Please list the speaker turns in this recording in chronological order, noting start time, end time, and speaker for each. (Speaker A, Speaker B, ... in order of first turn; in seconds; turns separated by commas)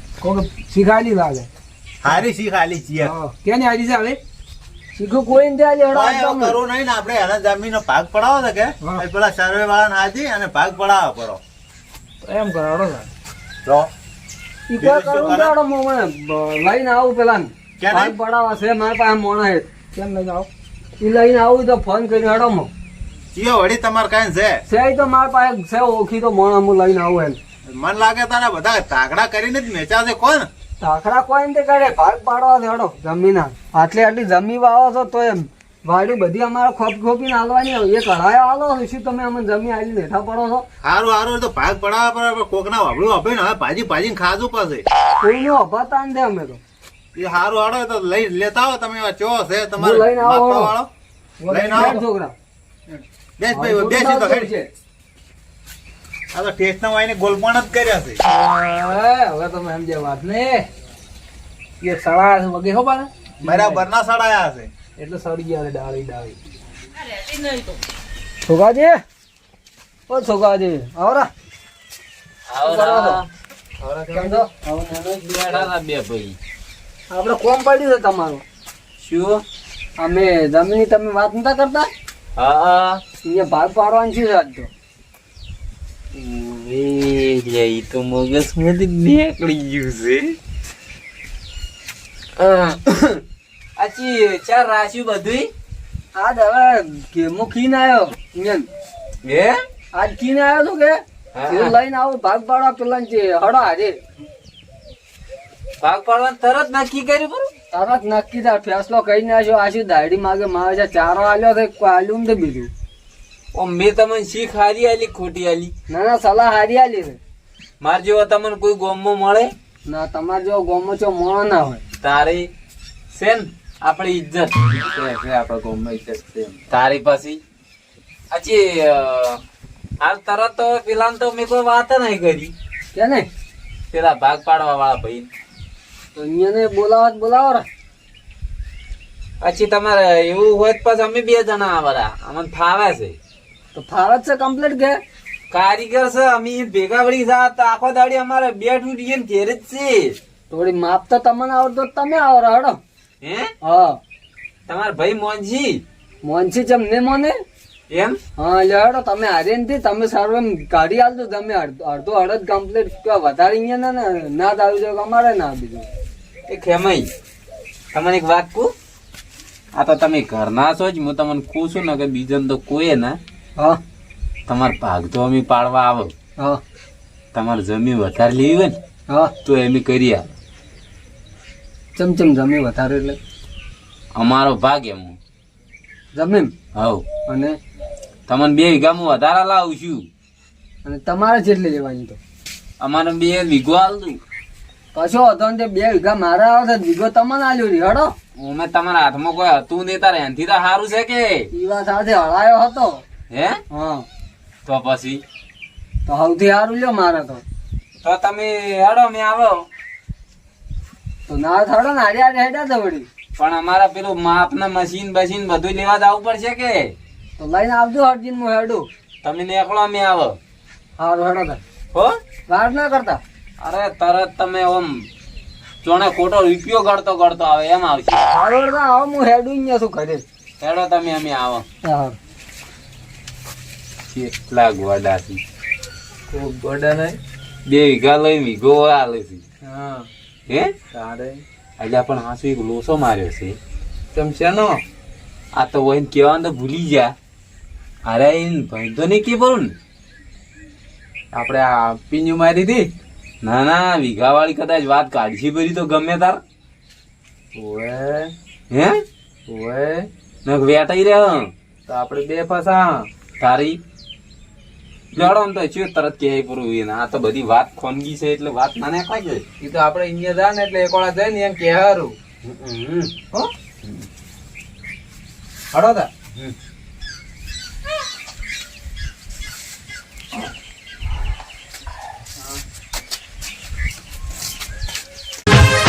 Speaker A: 0.2-1.5, Speaker B: 2.0-3.1, Speaker A: 3.0-4.2, Speaker C: 5.0-6.6, Speaker B: 5.9-11.4, Speaker A: 12.2-13.1, Speaker B: 13.7-13.9, Speaker C: 14.7-19.7, Speaker B: 14.8-15.6, Speaker B: 17.8-18.1, Speaker A: 19.9-20.5, Speaker C: 21.0-22.7, Speaker B: 23.4-24.6, Speaker C: 24.7-27.4, Speaker B: 27.6-30.5, Speaker C: 30.8-40.7, Speaker B: 40.8-44.9, Speaker C: 45.2-46.6, Speaker B: 47.1-50.9, Speaker C: 49.8-50.8, Speaker A: 51.4-52.0, Speaker B: 51.5-52.0, Speaker C: 51.8-52.3, Speaker B: 53.4-54.5, Speaker C: 53.5-54.7, Speaker B: 56.3-58.2, Speaker A: 58.2-60.7, Speaker A: 61.8-63.8, Speaker B: 63.4-64.7, Speaker A: 65.0-66.4, Speaker D: 67.2-67.7, Speaker C: 68.5-69.0, Speaker C: 70.1-71.3, Speaker D: 72.5-73.3, Speaker C: 72.6-73.2, Speaker C: 74.1-75.7, Speaker D: 75.2-76.4, Speaker C: 77.1-78.4, Speaker D: 79.0-79.4, Speaker C: 80.0-81.9, Speaker D: 82.4-83.0, Speaker C: 83.2-84.7, Speaker D: 86.1-90.4, Speaker D: 92.4-92.8, Speaker D: 93.8-95.5, Speaker C: 96.2-98.7, Speaker D: 99.2-99.6, Speaker C: 99.9-104.0, Speaker D: 101.3-101.7, Speaker D: 105.8-107.5, Speaker C: 107.7-112.7, Speaker D: 113.5-115.7, Speaker C: 115.9-117.2, Speaker D: 117.8-119.5, Speaker C: 119.9-121.8, Speaker D: 122.0-122.5, Speaker D: 123.1-124.8, Speaker E: 124.8-126.6, Speaker D: 126.7-127.4, Speaker D: 128.3-129.4, Speaker D: 130.0-132.5, Speaker C: 132.9-133.3, Speaker D: 133.9-135.3, Speaker C: 136.2-137.7, Speaker D: 139.4-143.2, Speaker C: 143.7-145.0, Speaker D: 145.5-150.2, Speaker C: 150.5-152.8, Speaker D: 153.2-153.5, Speaker C: 153.6-154.0, Speaker D: 154.7-155.8, Speaker C: 156.2-157.4, Speaker D: 157.9-158.2, Speaker C: 158.4-165.9, Speaker D: 166.5-167.1, Speaker D: 167.9-168.7, Speaker D: 169.7-173.2, Speaker D: 174.5-176.1, Speaker D: 177.3-178.8, Speaker D: 179.4-180.3, Speaker C: 181.9-183.2, Speaker D: 184.2-185.2, Speaker C: 186.1-186.5, Speaker D: 186.8-187.0, Speaker C: 187.3-187.6, Speaker D: 188.3-190.1, Speaker C: 190.8-192.2, Speaker D: 192.8-194.2, Speaker C: 194.9-198.1, Speaker D: 198.4-201.5, Speaker C: 201.5-203.0, Speaker D: 203.3-203.6, Speaker C: 203.7-204.1, Speaker D: 204.7-205.2, Speaker C: 206.1-207.4, Speaker D: 208.0-209.7, Speaker C: 211.3-213.1, Speaker D: 213.3-216.9, Speaker C: 217.4-218.9, Speaker D: 219.2-220.4, Speaker C: 221.0-221.6, Speaker C: 222.5-223.2, Speaker D: 223.6-225.1, Speaker D: 225.8-228.3, Speaker C: 228.3-230.2, Speaker D: 230.6-231.7, Speaker C: 231.8-232.2, Speaker D: 234.1-235.4, Speaker E: 236.3-237.2, Speaker D: 237.7-239.4, Speaker E: 239.6-240.1, Speaker E: 240.9-241.4, Speaker D: 241.8-243.6, Speaker E: 244.1-244.8, Speaker D: 245.5-247.1, Speaker D: 248.1-249.7, Speaker E: 251.3-252.9, Speaker D: 253.4-256.4, Speaker E: 257.5-258.3, Speaker D: 258.7-259.0, Speaker E: 259.5-260.1, Speaker D: 260.4-261.5, Speaker E: 261.9-263.1, Speaker D: 263.4-263.8, Speaker D: 265.1-269.4, Speaker E: 269.6-272.1, Speaker D: 272.4-274.1, Speaker E: 275.7-276.1, Speaker D: 276.2-276.6